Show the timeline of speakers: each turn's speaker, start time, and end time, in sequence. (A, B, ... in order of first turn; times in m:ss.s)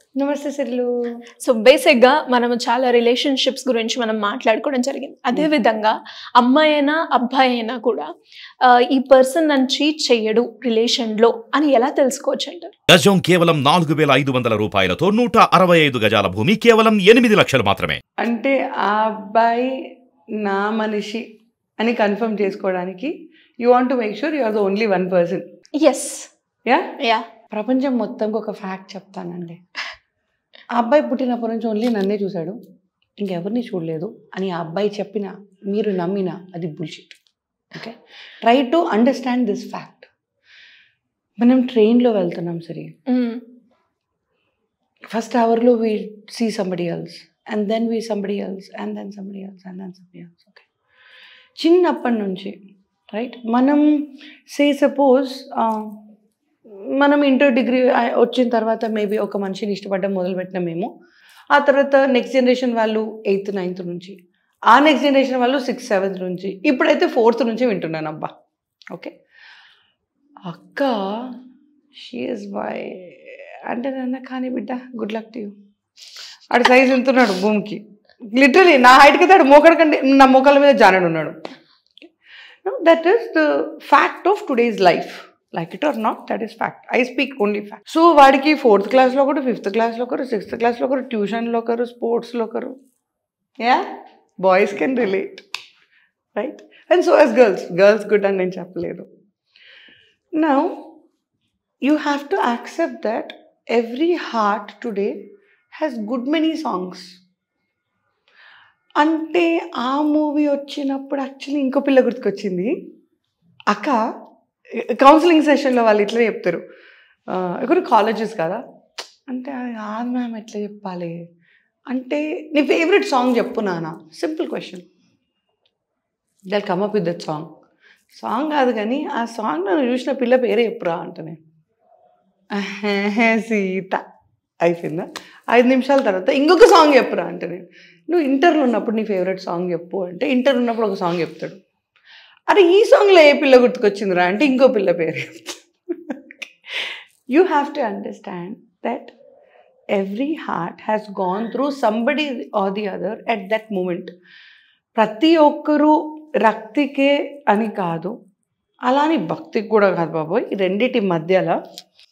0:00.2-0:00.9 A
0:01.4-0:08.0 B
0:08.6-0:12.7 B
0:12.9-0:18.0 C
0:18.2-0:19.7 A
0:20.4-0:21.2 A
0:21.8-0:25.4 A
0:25.8-0:26.3 B
0:27.0-0:27.2 B
0:27.5-0:29.6 A
0:30.7-0:32.6 A
0:33.2-0:37.2 A
0:37.7-0:40.1 A
0:41.4-0:43.0 A
0:43.1-0:43.4 B
0:45.1-0:50.6 A
0:51.6-0:52.5 A
0:53.1-0:53.8 A
0:54.5-0:55.9 A
0:56.9-1:00.9 A
1:01.5-1:04.1 A
1:04.7-1:08.3 A
1:10.5-1:11.3 A
1:11.9-1:15.5 A
1:16.5-1:21.4 A
1:22.6-1:32.7 A
1:34.4-1:35.4 A
1:36.3-1:39.1 A
1:40.4-1:40.8 A
1:41.8-1:45.1 A
1:45.7-1:47.1 A
1:49.0-1:52.7 A
1:53.7-1:54.0 A
1:55.0-1:56.6 A
1:57.3-1:58.6 A
1:59.3-2:01.2 A
2:01.9-2:04.8 A
2:06.5-2:07.5 A
2:08.1-2:11.4 A
2:12.6-2:14.0 A
2:14.6-2:21.6 A
2:22.5-2:26.5 A
2:27.3-2:29.1 A
2:29.9-2:34.1 A
2:34.9-2:38.1 A
2:38.9-2:41.6 A